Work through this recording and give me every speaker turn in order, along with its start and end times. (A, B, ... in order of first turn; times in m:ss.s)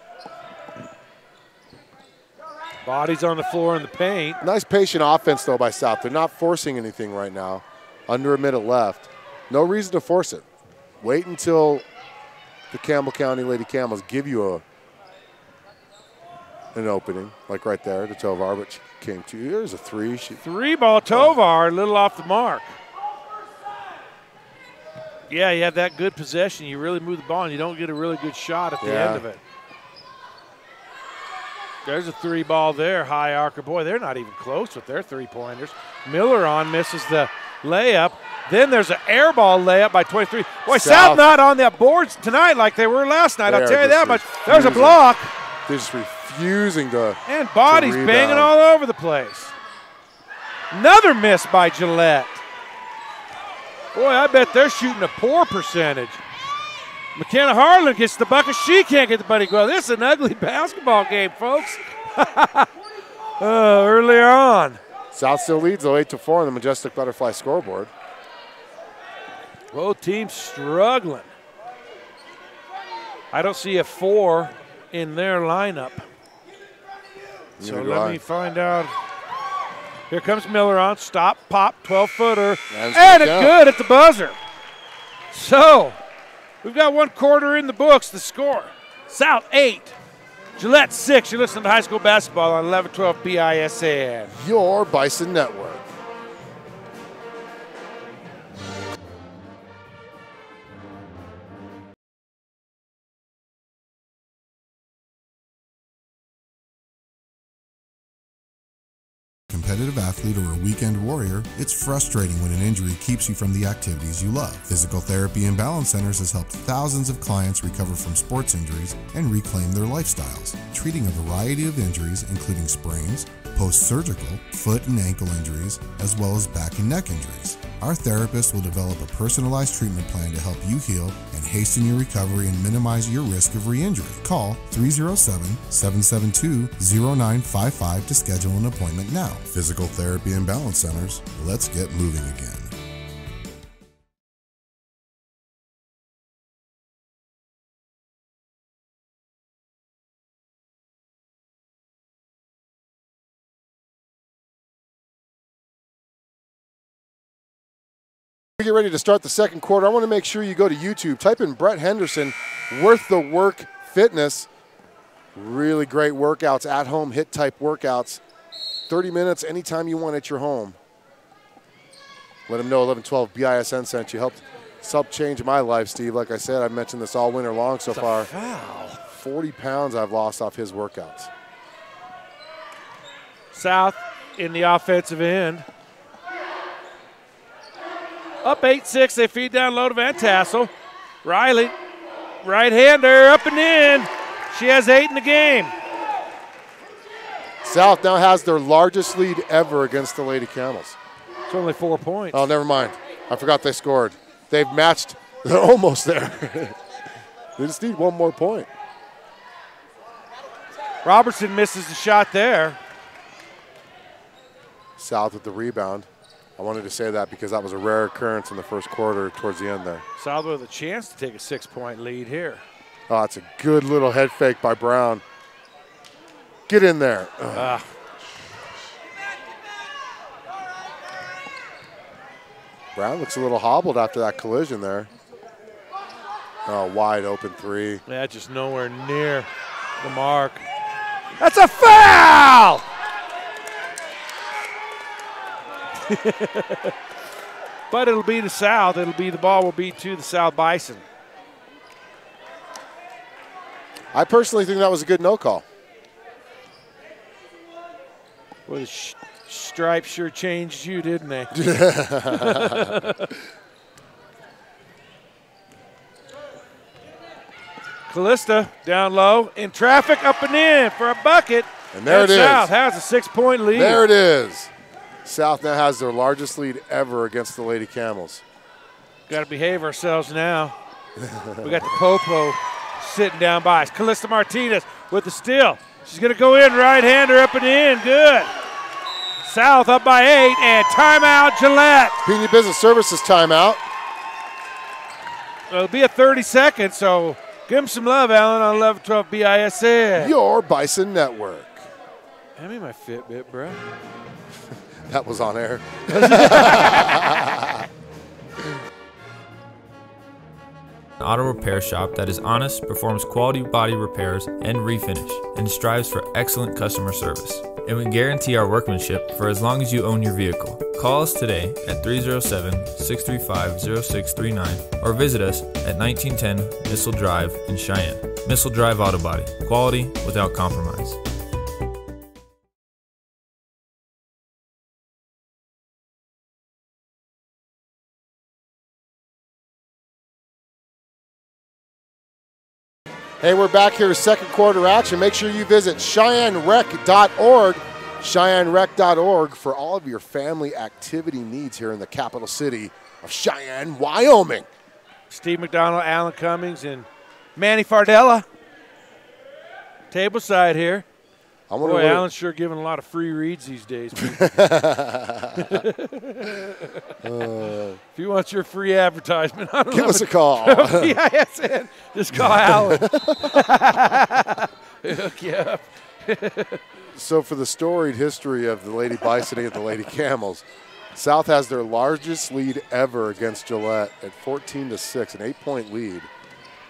0:02.8-0:04.4 A
0:04.4-0:10.5 B
0:11.0-0:11.9 B
0:12.7-0:14.6 B
0:16.7-0:20.4 B
0:20.4-0:22.8 A
0:21.1-0:21.4 B
0:25.3-0:29.4 A
0:28.8-0:29.3 B
0:31.8-0:45.3 A
0:40.7-0:41.3 B
0:43.5-0:45.0 B
0:45.6-0:48.5 B
0:47.3-0:49.6 A
0:50.7-0:52.4 A
0:53.9-0:56.2 A
0:57.2-1:02.7 A
1:03.4-1:04.8 A
1:05.1-1:07.9 B
1:09.7-1:11.3 A
1:13.3-1:16.1 A
1:17.6-1:18.2 B
1:17.6-1:18.9 A
1:20.1-1:24.4 A
1:22.7-1:23.6 B
1:25.3-1:26.0 A
1:26.6-1:30.0 A
1:30.6-1:34.3 A
1:34.3-1:35.9 B
1:49.5-1:54.7 C
1:55.6-2:12.1 C
2:12.7-2:19.5 C
2:19.5-2:22.7 B
2:38.6-2:44.5 B
2:45.4-2:48.2 B
2:48.9-2:50.8 B
2:52.5-2:58.3 B
2:57.9-2:59.0 A
2:59.1-3:01.3 B
3:03.5-3:05.7 A
3:08.4-3:10.7 A
3:11.2-3:11.8 A
3:12.4-3:15.7 A
3:17.6-3:21.0 B
3:21.5-3:22.4 A
3:22.3-3:26.8 B
3:27.6-3:28.7 B
3:31.0-3:32.8 A
3:35.0-3:40.0 B
3:40.2-3:42.6 A
3:43.1-3:45.2 B
3:46.7-3:47.8 B
3:47.5-3:47.9 A
3:52.9-3:55.1 B
3:56.7-3:58.0 B
3:58.1-3:59.5 A
4:00.0-4:00.7 A
4:01.4-4:02.8 A
4:06.0-4:06.9 A
4:07.9-4:11.0 A
4:14.1-4:15.6 B
4:18.7-4:21.6 A
4:21.5-4:23.0 B
4:22.3-4:23.3 A
4:28.1-4:34.0 A
4:31.9-4:32.7 B
4:33.7-4:34.7 B
4:35.2-4:38.4 B
4:39.3-4:40.8 A
4:41.2-4:41.9 B
4:41.6-4:48.5 A
4:49.4-4:52.2 A
4:52.2-4:53.8 B
4:55.7-5:00.3 A
5:00.2-5:01.9 B
5:02.6-5:03.8 A
5:05.1-5:07.9 B
5:06.1-5:07.2 A
5:11.2-5:31.2 D
5:43.4-5:54.7 B
5:55.3-5:58.5 A
6:00.1-6:01.0 A
6:01.7-6:02.3 B
6:01.8-6:04.5 A
6:04.3-6:05.8 B
6:05.6-6:07.1 A
6:07.2-6:08.0 B
6:08.1-6:16.8 A
6:09.9-6:11.2 B
6:12.4-6:13.5 B
6:17.1-6:26.3 B